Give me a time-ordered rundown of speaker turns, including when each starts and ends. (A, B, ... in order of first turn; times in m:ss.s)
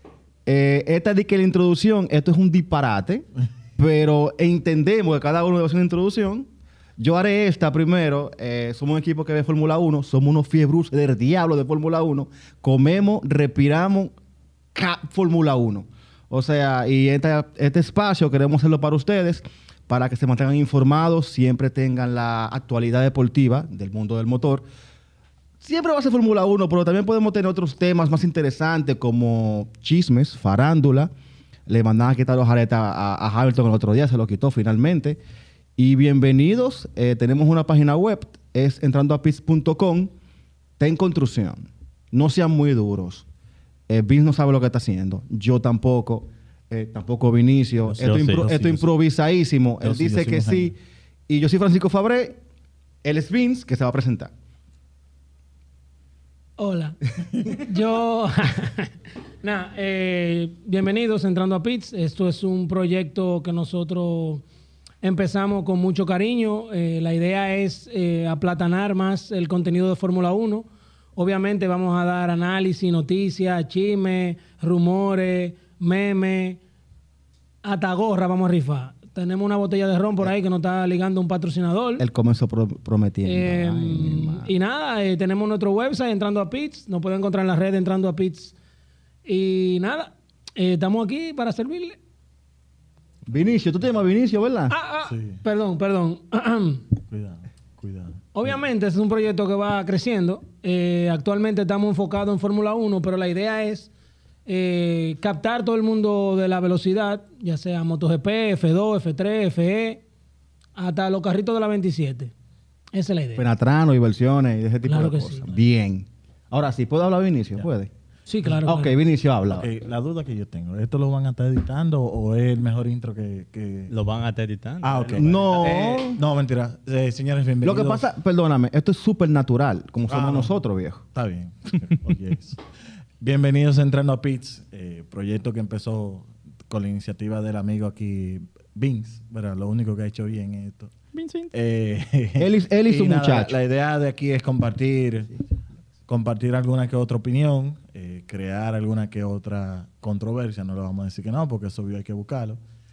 0:00.4-0:14.1 A
0:14.7-0:24.6 A
0:25.6-0:31.1 A
0:31.7-0:35.2 A
0:35.8-0:40.1 A
0:40.8-0:43.2 A
0:43.9-0:50.8 A
0:47.9-0:48.9 B
0:48.0-0:48.5 C
0:49.8-0:50.7 B
0:51.3-0:52.4 A
0:53.0-0:54.3 A
0:56.6-1:04.4 D
1:05.0-1:16.6 D
1:17.6-1:22.0 D
1:22.0-1:24.5 A
1:23.2-1:28.5 D
1:29.2-1:32.0 D
1:33.3-1:34.7 A
1:34.7-1:36.8 D
1:35.1-1:35.4 B
1:37.1-1:38.5 B
1:38.3-1:43.9 D
1:44.4-1:50.0 D
1:50.7-1:52.3 D
1:52.9-1:53.5 D
1:53.4-1:57.9 A
1:54.8-1:55.5 D
1:58.2-1:59.0 D
1:58.6-1:59.7 A
1:59.5-2:03.9 B
2:03.9-2:05.7 C
2:04.8-2:08.0 B
2:05.1-2:06.2 A
2:07.6-2:11.0 A
2:10.1-2:10.5 B
2:11.1-2:12.6 B
2:13.2-2:20.9 B
2:21.1-2:21.5 C
2:21.5-2:25.3 B
2:22.4-2:23.6 A
2:26.1-2:32.6 B